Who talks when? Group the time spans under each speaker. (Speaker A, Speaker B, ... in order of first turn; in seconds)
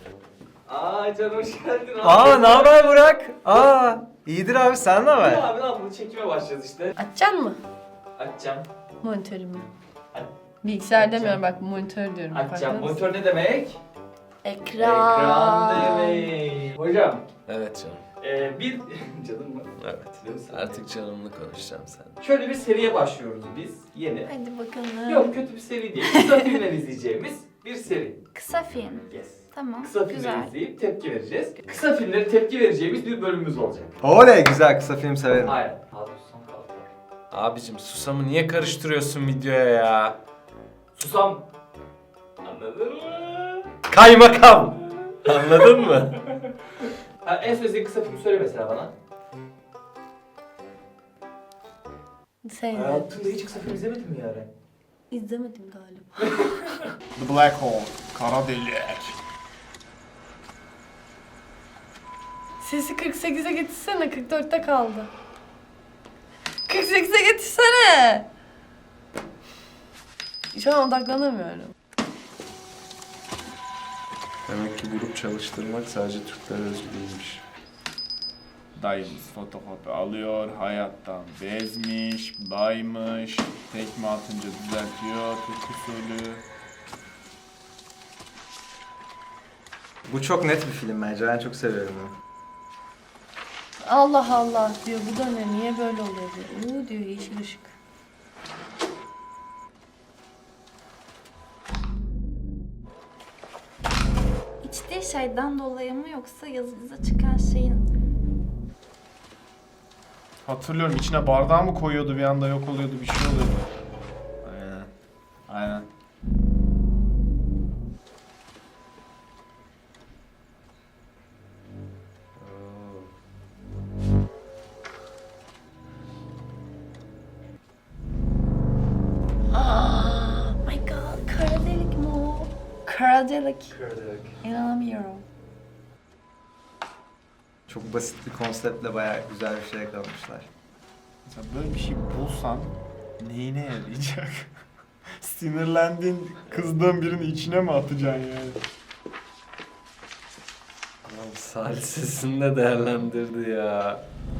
Speaker A: 0.6-2.9, 5.1-6.9, 8.2-8.7, 10.9-11.5, 12.3-13.8, 14.8-17.2, 18.2-20.9, 22.2-24.3, 25.1-28.2, 29.1-34.0, 35.4-36.9, 40.9-41.5, 42.4-43.7, 45.4-45.7, 46.4-48.9, 52.7-54.5, 56.2-56.9, 133.7-134.3
Speaker B: 2.0-5.5, 34.0-35.6, 90.0-92.1, 137.7-140.5
Speaker C: 7.0-7.6, 9.0-9.7, 10.6-13.0, 14.4-16.2, 24.6-25.0, 52.4-53.2, 55.1-56.2, 62.6-65.1, 66.7-68.2, 70.5-71.7, 93.8-97.7, 129.5-133.7, 134.4-135.2
Speaker D: 17.4-18.0, 19.8-22.2, 37.3-40.2, 43.9-46.2, 74.5-77.4, 122.4-123.1, 151.0-154.0
Speaker E: 24.3-24.6, 28.3-30.5, 104.6-107.8
Speaker F: 57.1-59.2, 78.8-86.4, 110.4-113.6, 114.4-114.9, 115.5-115.9, 141.2-144.5, 145.2-148.6